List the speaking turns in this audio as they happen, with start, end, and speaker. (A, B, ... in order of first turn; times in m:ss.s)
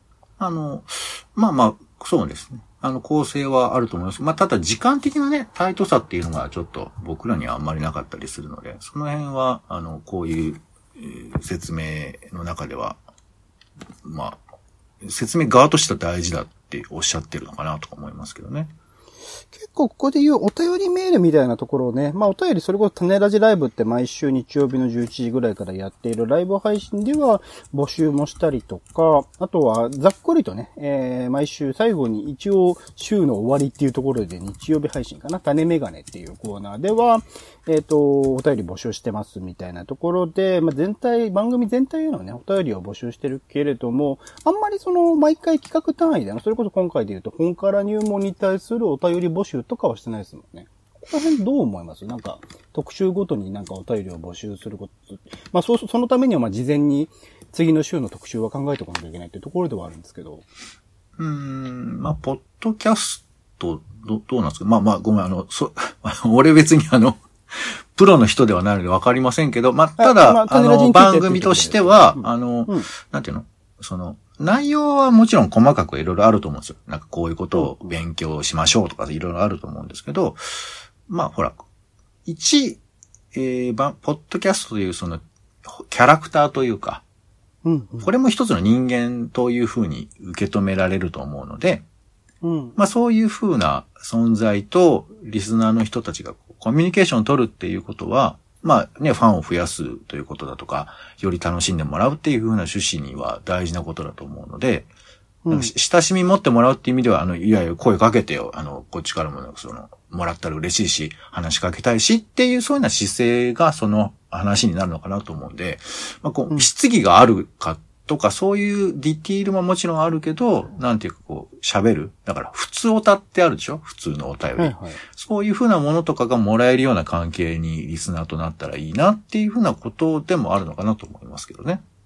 0:00.4-0:13.0 A
0:14.0-0:14.4 A
0:15.0-0:18.7 A
0:19.5-1:00.5 B
1:01.2-1:21.6 A
1:10.0-1:12.9 B
1:17.6-1:17.9 B
1:22.2-1:22.8 A
1:23.3-1:27.0 A
1:27.6-1:28.1 B
1:28.0-1:31.8 A
1:32.4-1:32.8 B
1:32.8-1:44.9 A
1:45.4-1:45.7 B
1:45.5-2:11.8 A
2:04.6-2:05.0 B